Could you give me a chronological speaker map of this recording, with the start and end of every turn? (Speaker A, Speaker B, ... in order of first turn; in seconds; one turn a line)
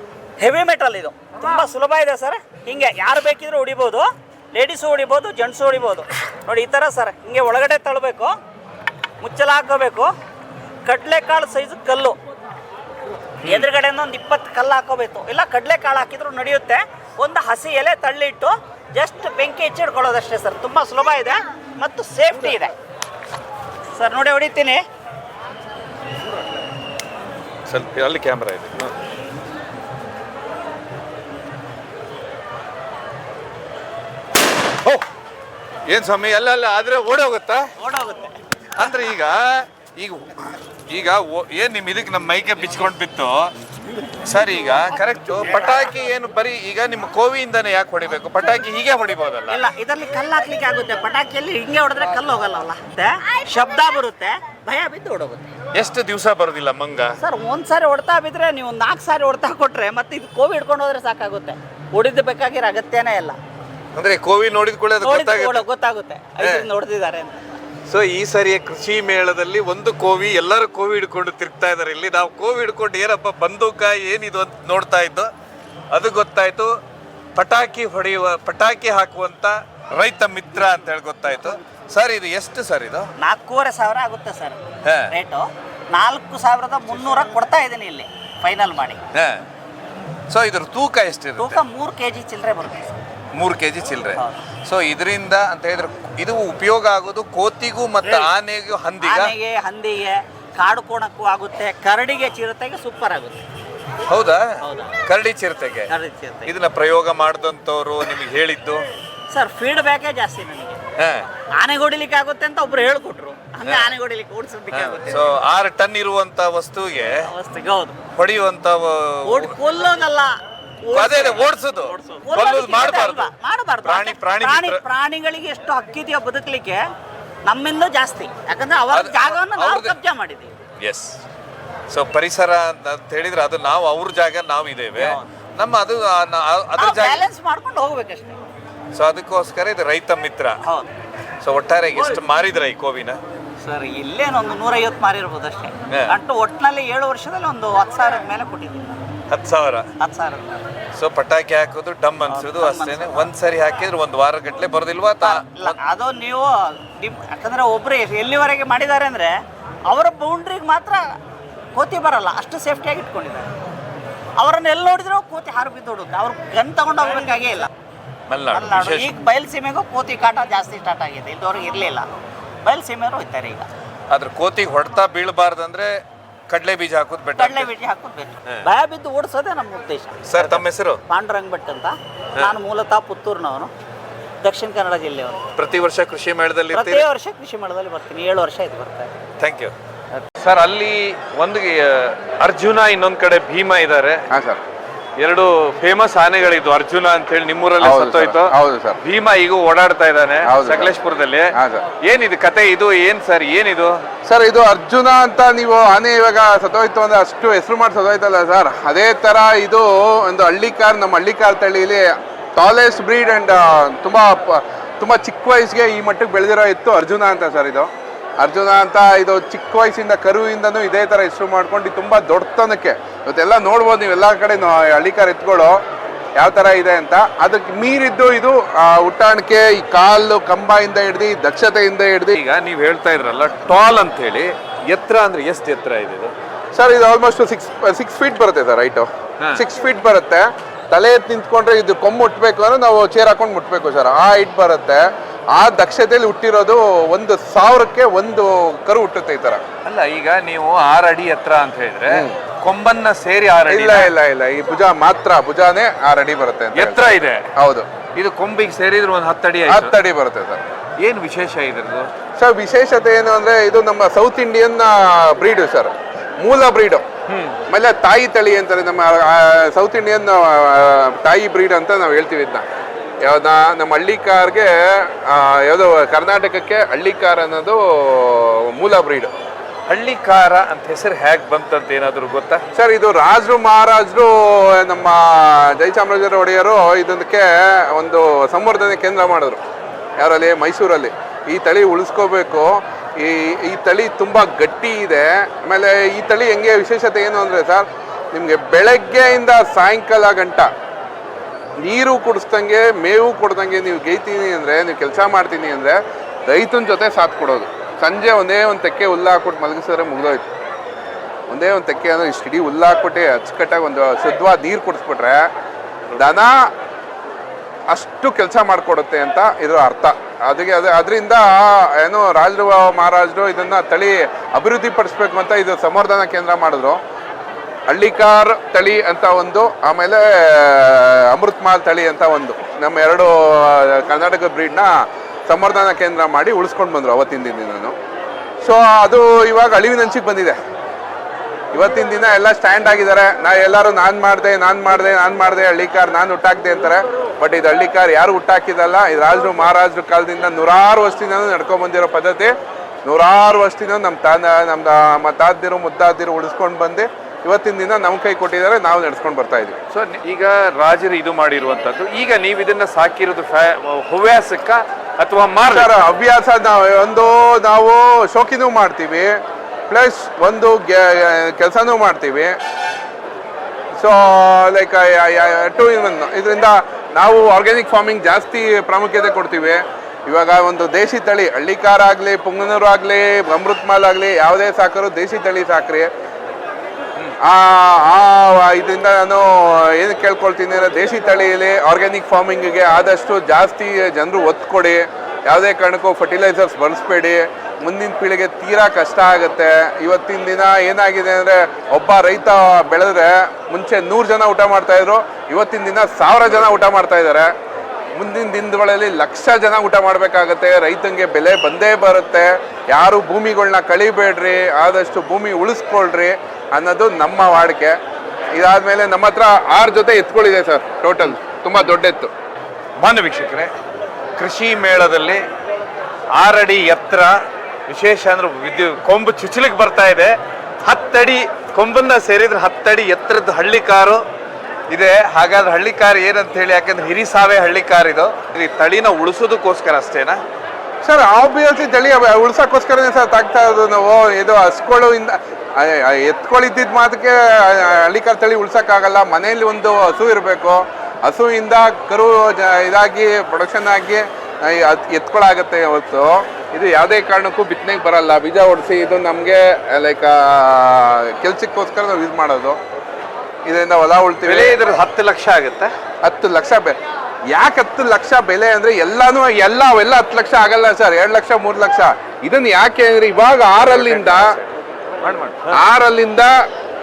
Speaker A: 0.4-8.3
Speaker A: 9.2-10.1
Speaker A: 10.9-12.2
Speaker A: 13.4-22.7
Speaker A: 23.9-24.8
Speaker B: 27.7-28.9
Speaker B: 35.9-37.7
Speaker A: 37.8-38.4
Speaker B: 38.8-40.2
Speaker B: 40.9-43.5
Speaker B: 44.2-49.6
Speaker A: 49.5-55.5
Speaker B: 55.7-57.1
Speaker A: 57.2-63.4
Speaker B: 64.0-65.6
Speaker A: 65.0-67.4
Speaker B: 66.4-66.7
Speaker B: 67.9-75.3
Speaker B: 75.9-76.8
Speaker B: 77.4-83.1
Speaker A: 83.2-84.6
Speaker B: 84.8-85.1
Speaker A: 85.1-89.0
Speaker B: 89.1-89.4
Speaker B: 90.3-91.6
Speaker A: 91.4-93.0
Speaker B: 93.3-99.3
Speaker A: 98.0-98.3
Speaker A: 99.0-103.4
Speaker B: 104.1-105.9
Speaker A: 104.6-105.0
Speaker A: 105.9-106.5
Speaker B: 106.5-108.8
Speaker A: 109.3-110.8
Speaker B: 111.0-111.3
Speaker A: 111.5-115.3
Speaker B: 113.7-113.9
Speaker B: 114.7-117.2
Speaker A: 117.2-118.0
Speaker B: 118.1-119.5
Speaker A: 119.2-120.3
Speaker A: 120.8-126.8
Speaker B: 120.9-123.3
Speaker B: 123.8-124.8
Speaker A: 127.5-130.5
Speaker B: 128.9-129.9
Speaker B: 130.8-131.2
Speaker B: 131.9-137.2
Speaker A: 135.0-135.2
Speaker A: 136.8-138.4
Speaker B: 138.9-140.6
Speaker B: 141.4-143.2
Speaker A: 141.9-142.2
Speaker A: 143.6-149.0
Speaker B: 149.3-149.9
Speaker A: 150.0-150.6
Speaker B: 151.0-155.8
Speaker A: 152.3-153.3
Speaker A: 155.2-159.3
Speaker A: 159.9-161.0
Speaker A: 161.8-163.5
Speaker A: 164.4-167.7
Speaker B: 168.3-169.1
Speaker A: 168.5-172.1
Speaker A: 172.7-173.7
Speaker B: 174.1-177.7
Speaker A: 177.4-183.7
Speaker B: 180.3-181.0
Speaker A: 184.4-185.4
Speaker B: 185.6-187.0
Speaker A: 186.7-189.1
Speaker B: 189.4-189.7
Speaker B: 190.4-194.2
Speaker C: 194.3-194.6
Speaker B: 195.2-204.0
Speaker C: 197.8-199.0
Speaker C: 200.4-200.9
Speaker C: 201.6-201.8
Speaker C: 204.2-225.8
Speaker C: 226.4-232.4
Speaker B: 232.3-236.3
Speaker C: 236.8-249.6
Speaker B: 249.8-254.1
Speaker C: 252.1-252.4
Speaker C: 253.7-257.9
Speaker B: 256.7-257.5
Speaker B: 258.1-259.9
Speaker C: 259.7-260.6
Speaker B: 261.0-262.1
Speaker C: 262.4-267.1
Speaker B: 267.3-267.6
Speaker C: 267.7-272.6
Speaker C: 273.2-279.3
Speaker B: 279.9-282.6
Speaker C: 282.8-289.6
Speaker C: 290.2-300.7
Speaker C: 301.8-310.5
Speaker C: 311.5-315.5
Speaker C: 316.1-316.5
Speaker C: 317.9-327.0
Speaker C: 327.9-337.9
Speaker C: 338.6-340.6
Speaker C: 341.7-352.5
Speaker C: 353.1-359.8
Speaker B: 359.9-365.9
Speaker C: 365.7-369.4
Speaker C: 369.9-372.5
Speaker C: 374.0-386.1
Speaker C: 387.4-407.5
Speaker C: 408.1-418.0
Speaker C: 418.5-422.3
Speaker B: 423.0-423.7
Speaker B: 424.4-425.4
Speaker B: 426.4-427.4
Speaker B: 427.9-434.2
Speaker B: 434.9-440.4
Speaker C: 441.0-462.8
Speaker C: 463.7-464.8
Speaker B: 464.4-465.9
Speaker C: 466.2-467.0
Speaker C: 467.5-474.5
Speaker B: 473.8-475.8
Speaker C: 475.7-476.5